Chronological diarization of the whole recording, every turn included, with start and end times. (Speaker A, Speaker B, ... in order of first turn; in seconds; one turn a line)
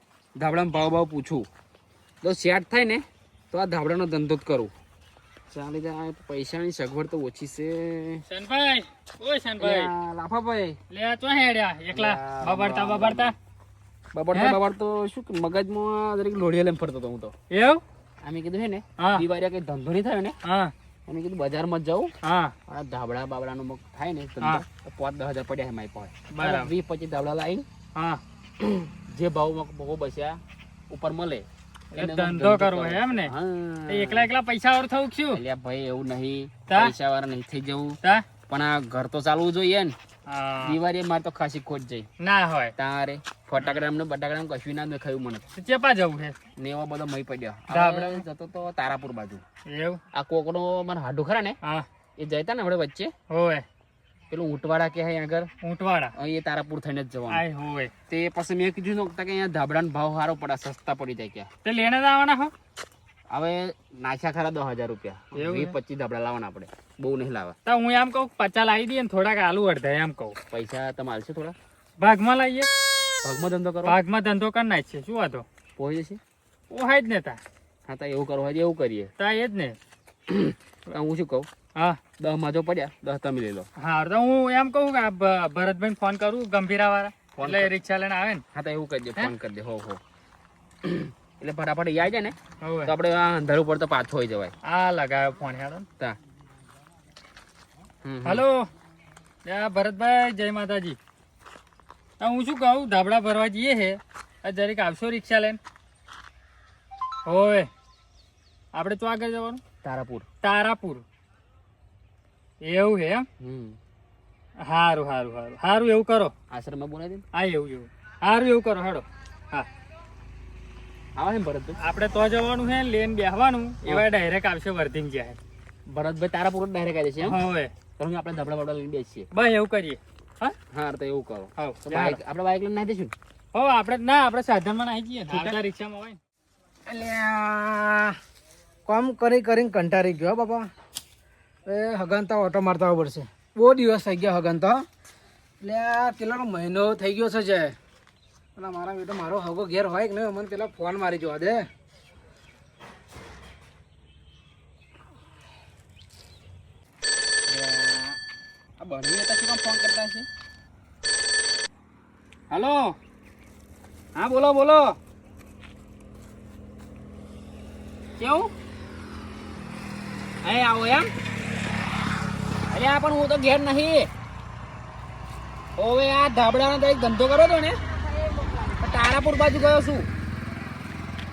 Speaker A: 0.3-1.5
Speaker A: 2.2-4.7
Speaker A: 5.5-8.2
Speaker B: 8.3-9.9
Speaker A: 9.6-10.8
Speaker B: 10.9-13.3
Speaker A: 11.9-13.3
Speaker A: 14.1-17.3
Speaker B: 17.5-17.8
Speaker A: 18.2-20.4
Speaker B: 19.0-19.2
Speaker B: 20.4-20.7
Speaker A: 21.1-22.1
Speaker B: 22.2-22.5
Speaker A: 22.7-27.6
Speaker B: 26.3-26.7
Speaker B: 27.9-28.2
Speaker A: 28.6-34.3
Speaker B: 31.9-33.3
Speaker B: 33.9-35.4
Speaker A: 35.3-38.0
Speaker A: 38.5-40.0
Speaker B: 40.3-40.8
Speaker A: 40.6-42.1
Speaker B: 42.2-42.7
Speaker A: 42.8-45.4
Speaker B: 45.6-46.4
Speaker A: 46.6-49.4
Speaker B: 47.7-48.2
Speaker B: 49.7-50.0
Speaker A: 50.1-51.6
Speaker A: 52.2-53.1
Speaker B: 53.3-53.6
Speaker A: 54.3-55.5
Speaker B: 55.6-56.1
Speaker A: 56.1-57.4
Speaker B: 57.3-57.9
Speaker A: 58.1-61.5
Speaker B: 61.6-62.5
Speaker A: 63.3-67.5
Speaker B: 65.3-65.7
Speaker B: 67.7-70.3
Speaker A: 70.5-71.5
Speaker B: 72.0-72.7
Speaker A: 73.2-74.0
Speaker B: 73.8-75.4
Speaker A: 75.8-76.2
Speaker B: 76.7-77.4
Speaker A: 77.9-79.1
Speaker B: 79.2-79.8
Speaker A: 80.3-81.5
Speaker A: 82.2-83.7
Speaker B: 83.8-88.4
Speaker A: 87.3-87.7
Speaker A: 88.5-90.0
Speaker A: 90.8-94.5
Speaker B: 92.6-92.9
Speaker B: 94.6-95.8
Speaker A: 98.0-98.4
Speaker B: 98.2-98.7
Speaker B: 99.4-101.0
Speaker B: 102.2-105.6
Speaker B: 107.2-107.7
Speaker B: 108.7-109.6
Speaker A: 109.8-110.2
Speaker B: 110.4-111.0
Speaker B: 112.6-113.2
Speaker A: 113.4-113.8
Speaker B: 114.7-116.3
Speaker A: 116.5-117.2
Speaker B: 117.3-119.7
Speaker A: 121.2-121.8
Speaker B: 121.8-125.4
Speaker A: 125.9-127.4
Speaker B: 127.2-127.7
Speaker A: 128.0-129.3
Speaker B: 129.3-130.6
Speaker A: 130.7-133.1
Speaker B: 131.6-132.2
Speaker B: 133.5-136.2
Speaker A: 135.3-135.6
Speaker C: 136.8-138.2
Speaker C: 138.8-140.7
Speaker C: 141.7-144.8
Speaker C: 145.6-147.8
Speaker C: 148.6-151.6
Speaker A: 157.5-158.2
Speaker A: 158.8-160.3
Speaker A: 162.5-163.0
Speaker A: 164.1-165.0
Speaker A: 168.2-168.5
Speaker A: 170.4-171.1
Speaker A: 172.7-174.1
Speaker A: 175.8-177.8
Speaker C: 178.0-178.7
Speaker A: 178.8-180.1